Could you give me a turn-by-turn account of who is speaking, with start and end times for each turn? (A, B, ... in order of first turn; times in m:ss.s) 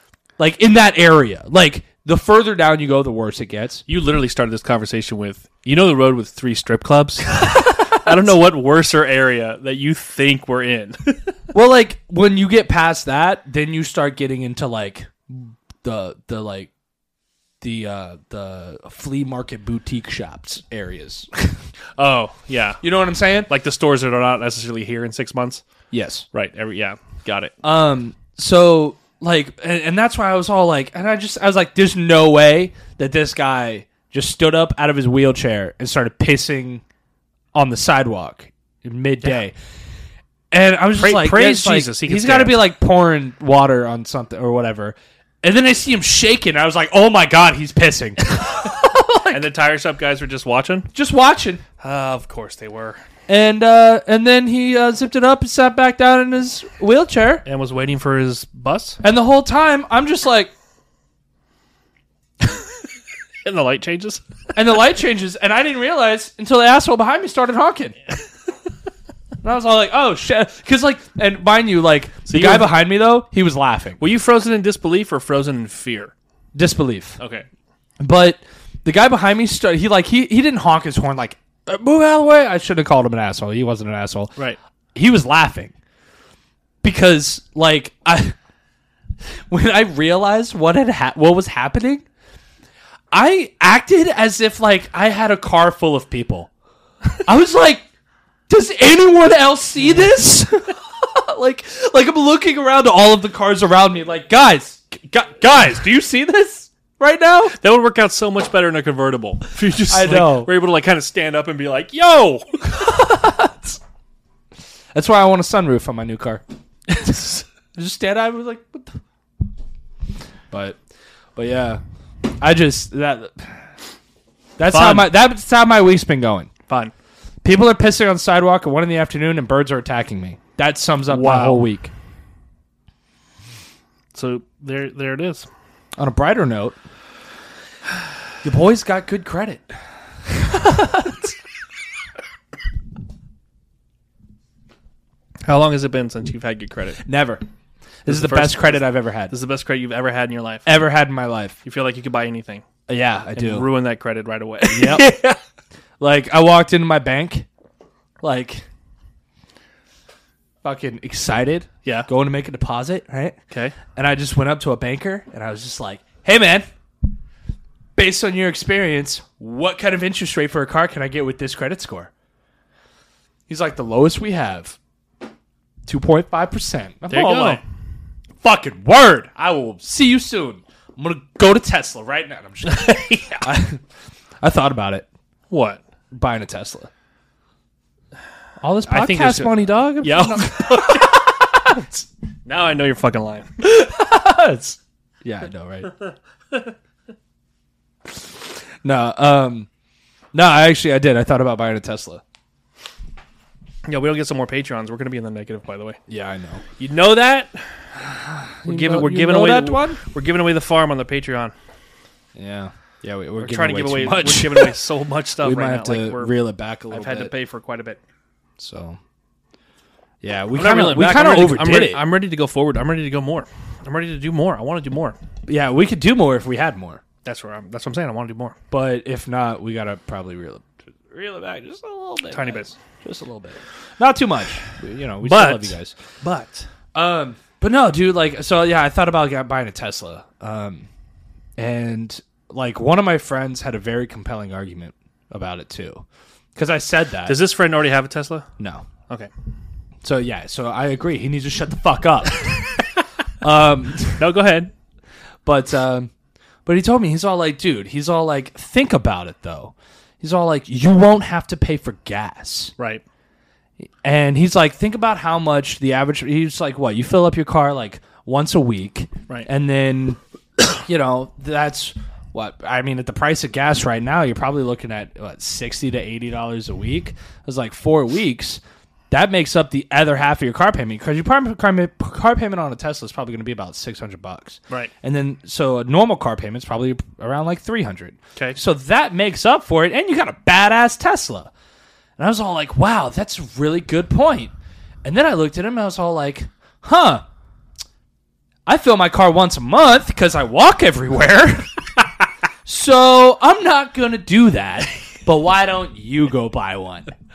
0:00.4-0:03.8 A
0:03.9-0:11.4 B
0:07.3-0:08.3 A
0:11.5-0:16.7 A
0:17.6-0:21.7 A
0:22.0-0:22.8 B
0:22.8-0:23.5 A
0:23.5-0:25.6 B
0:25.9-0:26.3 A
0:26.3-0:27.5 B
0:27.6-0:36.8 A
0:37.5-0:39.5 A
0:40.5-0:49.4 A
0:41.0-0:42.6 B
0:49.3-0:50.9 B
0:50.9-0:51.6 A
0:51.8-0:53.0 B
0:53.3-0:57.4 A
0:57.4-0:59.0 B
0:59.0-1:00.5 A
1:03.4-1:04.2 B
1:04.6-1:08.0 A
1:09.4-1:14.0 A
1:12.3-1:12.7 B
1:14.0-1:16.1 B
1:16.6-1:17.2 A
1:17.2-1:17.4 B
1:18.0-1:24.4 A
1:25.0-1:25.7 A
1:26.8-1:28.4 A
1:29.5-1:32.0 A
1:33.1-1:36.5 A
1:37.2-1:37.9 A
1:38.5-1:47.6 A
1:47.6-1:52.8 B
1:49.9-1:50.5 A
1:52.7-1:53.8 A
1:54.9-1:59.0 A
2:00.5-2:00.8 A
2:01.4-2:01.8 A
2:02.4-2:03.7 A
2:04.6-2:06.5 A
2:04.7-2:05.1 B
2:06.7-2:06.9 B
2:07.4-2:11.9 A
2:11.1-2:11.6 B
2:14.1-2:15.5 B
2:16.0-2:16.8 A
2:18.4-2:21.3 A
2:25.4-2:27.0 B
2:27.0-2:27.4 A
2:28.0-2:29.4 A
2:28.1-2:30.7 B
2:30.7-2:31.6 A
2:31.6-2:32.6 B
2:32.9-2:33.7 A
2:33.4-2:35.4 B
2:34.7-2:35.2 A
2:36.0-2:37.5 A
2:38.2-2:38.7 A
2:40.6-2:43.4 A
2:43.5-2:43.8 B
2:43.9-2:46.7 A
2:48.0-2:52.1 A
2:53.5-2:54.8 A
2:55.9-2:57.6 A
2:57.1-2:57.6 B
2:58.4-3:03.8 A
3:02.6-3:03.4 B
3:04.4-3:05.1 A
3:05.5-3:05.8 B
3:06.1-3:06.9 A
3:08.6-3:12.1 A
3:08.9-3:11.2 B
3:12.5-3:13.5 B
3:13.6-3:15.9 A
3:18.8-3:19.7 A
3:20.3-3:22.2 A
3:23.8-3:26.0 B
3:26.1-3:26.6 A
3:26.8-3:27.8 B
3:28.0-3:30.0 A
3:28.7-3:31.5 B
3:32.4-3:34.8 A
3:33.4-3:36.4 B
3:35.4-3:37.3 A
3:36.9-3:38.0 B
3:38.6-3:39.0 A
3:40.2-3:42.0 A
3:40.5-3:45.2 B
3:45.5-3:47.0 A
3:47.2-3:48.6 B
3:48.7-3:56.0 A
3:52.3-3:52.7 B
3:55.2-3:56.7 B
3:57.0-4:00.9 A
4:01.6-4:06.0 A
4:06.6-4:07.4 A
4:07.3-4:08.5 B
4:08.6-4:08.9 A
4:10.0-4:12.7 A
4:13.4-4:14.3 A
4:14.2-4:14.7 B
4:15.4-4:16.1 A
4:16.7-4:22.7 A
4:22.8-4:23.0 B
4:24.0-4:30.2 A
4:30.7-4:51.5 A
4:52.2-4:54.5 A
4:55.0-4:57.2 A
4:58.7-5:02.1 A
5:02.6-5:07.1 A